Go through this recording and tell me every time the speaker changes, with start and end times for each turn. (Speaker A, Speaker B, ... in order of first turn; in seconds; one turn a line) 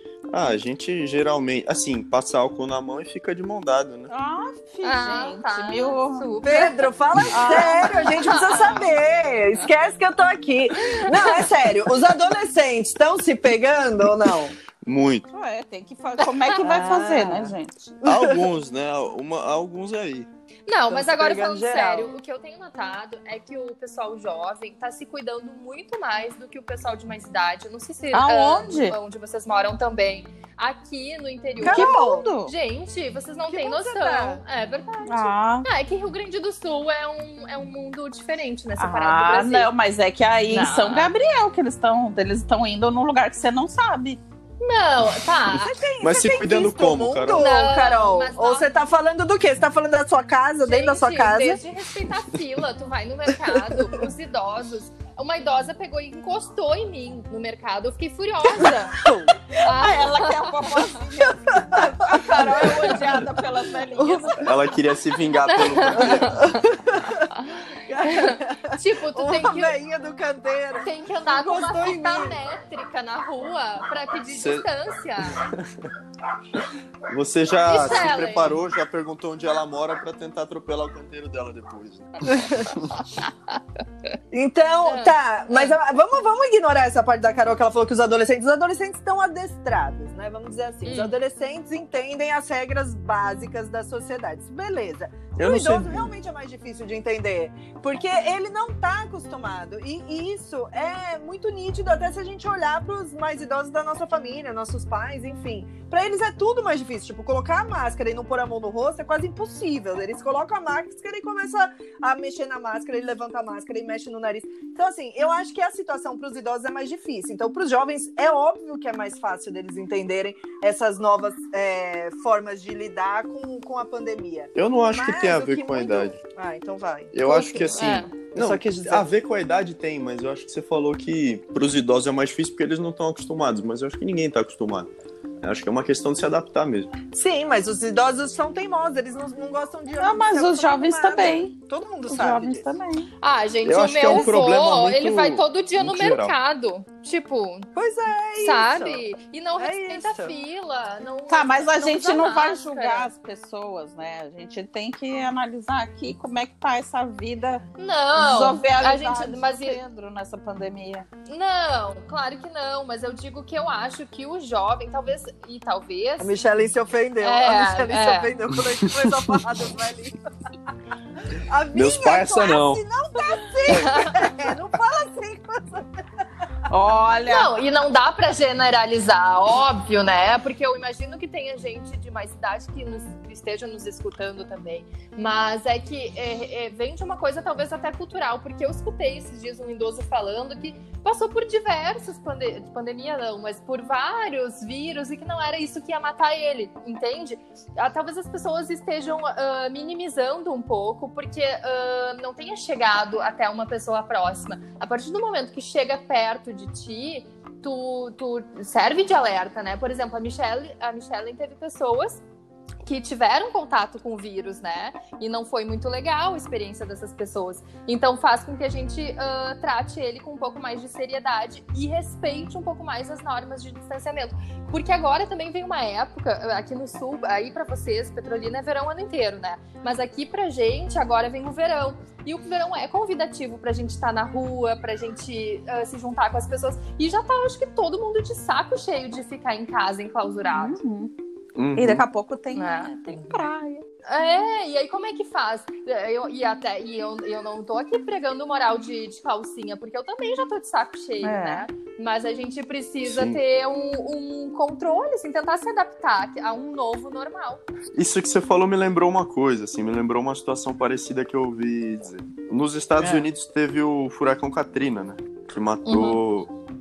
Speaker A: 0.3-4.1
Speaker B: 4.1-6.6
Speaker C: 4.8-6.9
Speaker D: 6.4-14.6
Speaker A: 7.2-7.5
Speaker B: 7.3-8.9
Speaker C: 7.5-8.8
Speaker C: 10.8-11.4
Speaker A: 14.8-15.3
Speaker B: 15.3-17.9
Speaker D: 16.6-18.5
Speaker A: 18.1-20.3
Speaker C: 20.7-39.7
Speaker D: 20.9-22.2
Speaker B: 28.1-29.0
Speaker D: 31.6-32.3
Speaker B: 31.6-32.5
Speaker D: 33.5-34.4
Speaker B: 35.1-35.7
Speaker B: 38.8-44.2
Speaker C: 40.5-41.1
Speaker C: 44.6-45.8
Speaker D: 45.5-51.6
Speaker A: 46.0-47.5
Speaker C: 47.4-48.8
Speaker C: 50.6-59.0
Speaker D: 58.9-59.5
Speaker B: 59.6-64.6
Speaker C: 59.6-61.0
Speaker D: 61.2-63.3
Speaker D: 64.0-64.5
Speaker A: 64.4-66.5
Speaker C: 65.5-66.6
Speaker D: 66.1-72.4
Speaker C: 67.3-69.8
Speaker C: 70.8-75.4
Speaker A: 74.3-74.7
Speaker A: 75.3-75.7
Speaker A: 77.1-82.9
Speaker C: 77.7-78.6
Speaker D: 84.3-129.1
Speaker C: 84.8-85.7
Speaker C: 90.9-91.2
Speaker A: 95.4-96.1
Speaker A: 124.6-126.2
Speaker A: 127.1-134.9
Speaker C: 127.7-128.1
Speaker A: 135.4-136.9
Speaker D: 137.1-142.7
Speaker B: 139.9-141.5
Speaker B: 142.1-143.1
Speaker C: 143.2-147.7
Speaker A: 143.7-146.3
Speaker D: 147.8-149.0
Speaker C: 148.4-153.1
Speaker D: 149.6-150.3
Speaker B: 151.3-157.7
Speaker C: 157.8-159.8
Speaker B: 158.2-161.1
Speaker C: 161.3-166.4
Speaker D: 166.2-170.2
Speaker C: 167.2-168.3
Speaker A: 168.8-169.3
Speaker D: 171.2-175.9
Speaker A: 171.7-172.8
Speaker C: 173.7-174.2
Speaker B: 176.7-177.5
Speaker C: 177.3-212.2
Speaker C: 212.8-240.8
Speaker B: 240.5-241.1
Speaker A: 241.6-242.1
Speaker B: 241.8-243.8
Speaker C: 242.6-243.3
Speaker C: 244.1-257.6
Speaker B: 251.2-251.7
Speaker A: 253.1-253.4
Speaker A: 257.9-266.5
Speaker C: 265.9-266.2